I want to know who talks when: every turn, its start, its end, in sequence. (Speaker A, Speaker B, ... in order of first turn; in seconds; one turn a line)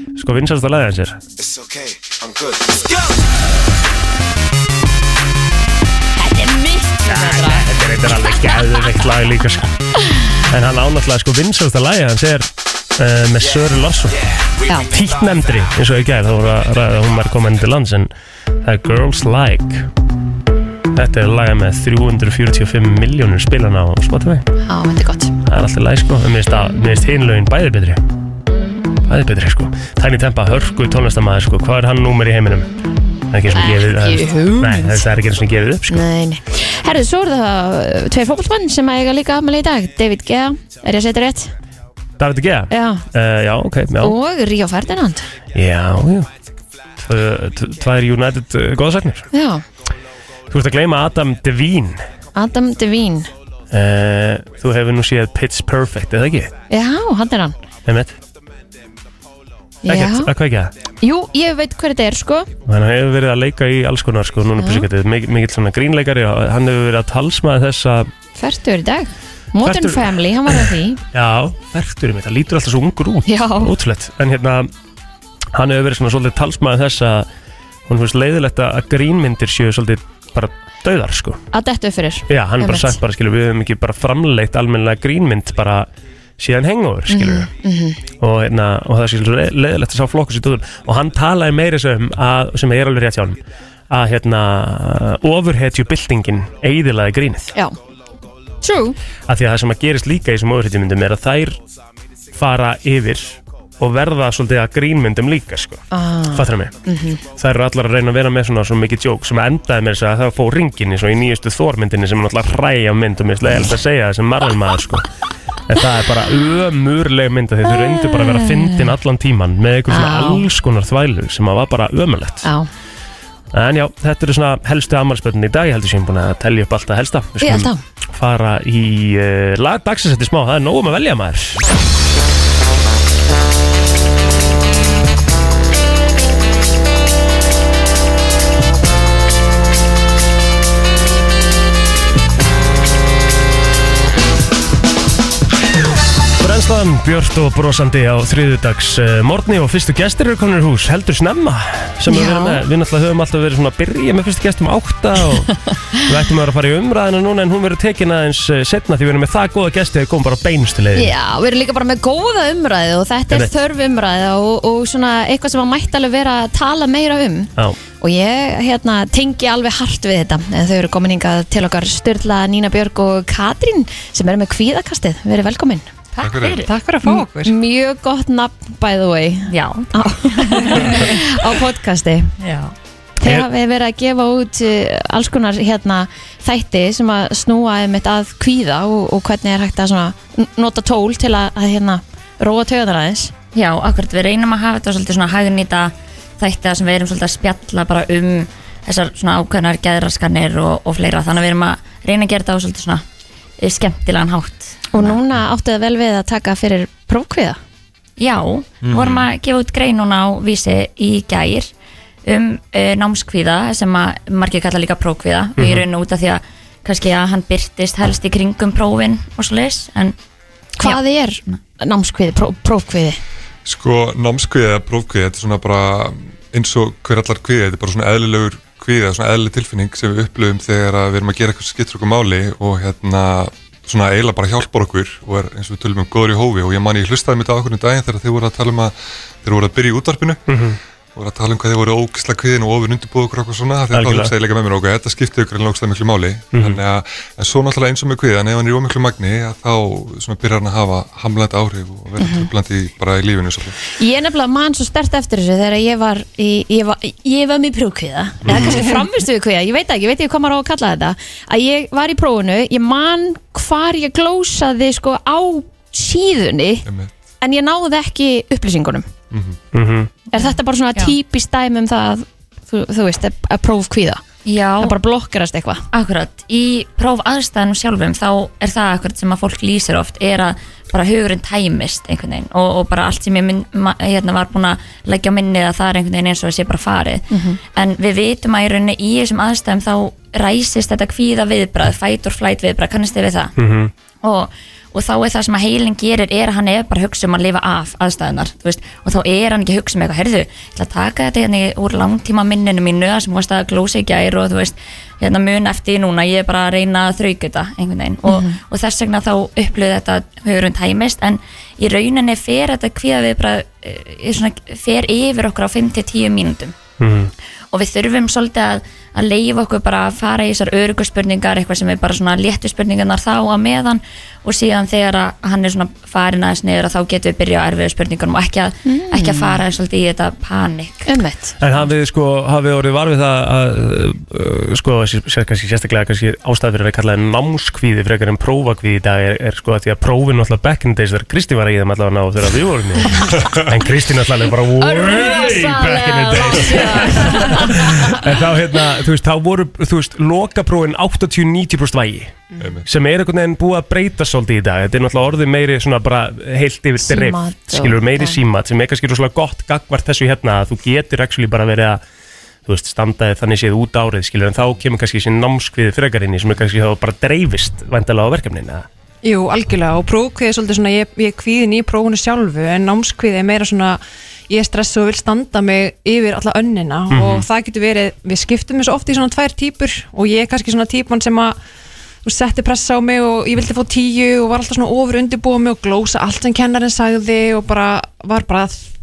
Speaker A: 0.2-1.2
Speaker B: 6.2-7.7
Speaker A: 7.1-9.7
Speaker A: 10.5-14.2
Speaker A: 14.8-18.1
Speaker A: 18.6-19.9
Speaker A: 20.9-24.5
Speaker B: 24.6-25.4
Speaker A: 25.4-28.0
Speaker A: 29.1-32.7
Speaker A: 33.3-36.1
Speaker B: 33.5-35.1
Speaker B: 35.9-41.5
Speaker A: 42.2-44.2
Speaker B: 42.7-43.0
Speaker B: 44.0-45.3
Speaker A: 45.5-46.3
Speaker A: 47.0-49.3
Speaker B: 49.3-49.6
Speaker A: 50.5-52.0
Speaker B: 52.4-53.3
Speaker A: 53.7-56.5
Speaker B: 56.7-57.6
Speaker A: 57.9-58.2
Speaker B: 59.8-60.3
Speaker A: 59.9-60.7
Speaker B: 61.0-62.5
Speaker A: 62.6-68.1
Speaker B: 64.6-64.9
Speaker B: 68.4-71.0
Speaker A: 69.6-74.7
Speaker B: 73.3-73.7
Speaker A: 75.5-77.3
Speaker A: 77.9-81.4
Speaker B: 81.5-83.0
Speaker A: 82.3-87.5
Speaker B: 87.1-88.0
Speaker A: 88.2-93.4
Speaker A: 93.9-97.5
Speaker B: 98.6-99.0
Speaker A: 99.3-101.6
Speaker A: 102.3-106.8
Speaker B: 105.9-107.2
Speaker A: 107.3-115.1
Speaker A: 115.7-122.5
Speaker B: 118.0-118.8
Speaker B: 119.9-120.5
Speaker A: 123.5-131.6
Speaker B: 127.4-127.8
Speaker A: 146.4-161.1
Speaker B: 152.1-152.6
Speaker B: 160.9-175.9
Speaker C: 176.2-176.7
Speaker D: 176.2-176.7
Speaker E: 176.7-177.5
Speaker B: 177.0-182.3
Speaker C: 179.5-181.2
Speaker C: 182.4-182.7
Speaker B: 183.2-193.3
Speaker C: 193.5-203.0
Speaker C: 203.6-205.1
Speaker B: 204.9-207.6
Speaker C: 208.2-211.7
Speaker C: 212.2-220.2
Speaker A: 215.6-215.8
Speaker B: 220.8-223.2
Speaker C: 220.8-221.6
Speaker D: 223.7-240.4
Speaker A: 240.5-240.8
Speaker D: 241.2-253.8
Speaker A: 243.9-244.3
Speaker A: 246.5-246.8
Speaker B: 252.2-252.5
Speaker B: 254.0-266.9
Speaker D: 258.4-258.7
Speaker E: 258.7-259.0
Speaker B: 267.4-269.1
Speaker D: 269.3-269.6
Speaker A: 269.7-270.1
Speaker B: 270.3-274.2
Speaker C: 270.4-271.1
Speaker C: 274.4-275.0
Speaker B: 274.8-275.8
Speaker C: 275.9-293.5
Speaker B: 287.3-287.6
Speaker A: 293.6-293.9
Speaker C: 294.2-316.8
Speaker B: 308.3-308.6
Speaker A: 317.0-317.3
Speaker C: 317.7-331.1
Speaker B: 328.9-329.6
Speaker B: 331.1-331.6
Speaker A: 331.6-362.0
Speaker B: 346.5-347.5
Speaker D: 352.6-352.9
Speaker B: 357.0-358.4
Speaker A: 362.7-368.9
Speaker E: 369.2-381.6
Speaker A: 377.1-377.5
Speaker E: 382.2-388.9